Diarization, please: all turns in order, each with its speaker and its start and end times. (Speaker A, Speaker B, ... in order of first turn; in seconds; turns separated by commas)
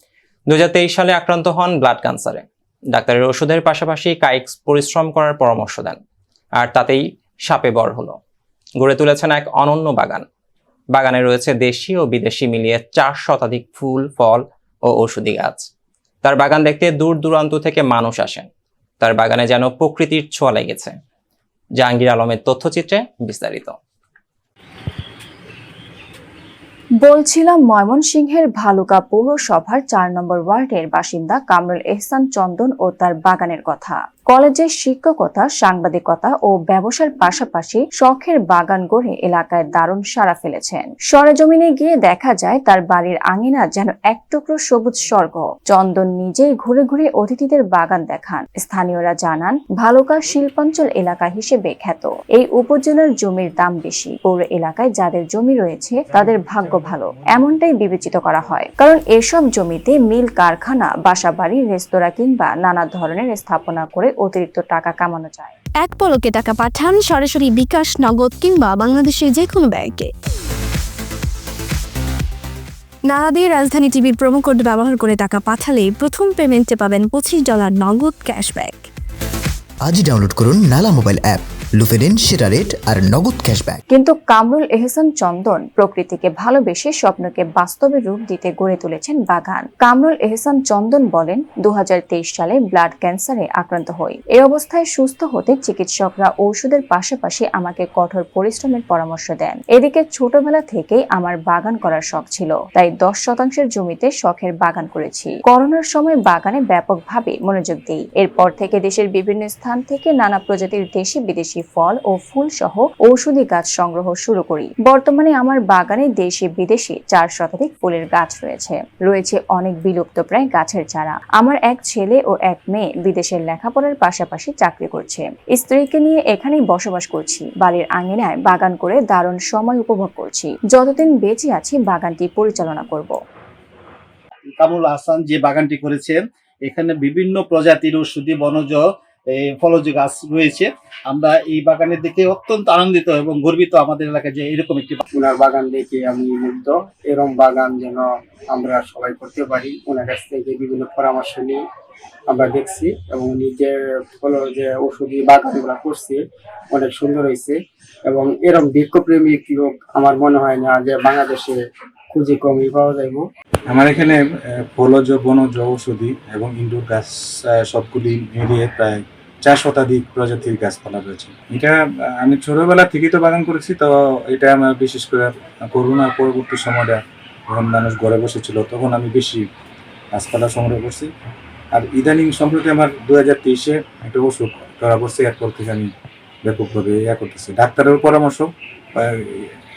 Speaker A: 0.5-6.0, Speaker A: 6.6-8.2, Speaker A: 8.8-10.2, Speaker A: 10.9-15.7, Speaker A: 16.2-18.5, Speaker A: 19.0-20.9, Speaker A: 21.8-23.8, Speaker B: 27.0-65.5, Speaker C: 65.8-70.1, Speaker C: 73.1-78.9, Speaker D: 79.8-83.8, Speaker B: 83.9-133.2, Speaker E: 134.6-145.0, Speaker F: 145.1-151.6, Speaker F: 152.3-161.6, Speaker F: 162.1-163.2, Speaker G: 163.7-179.4, Speaker G: 180.1-181.1, Speaker G: 181.7-185.9, Speaker G: 186.4-189.5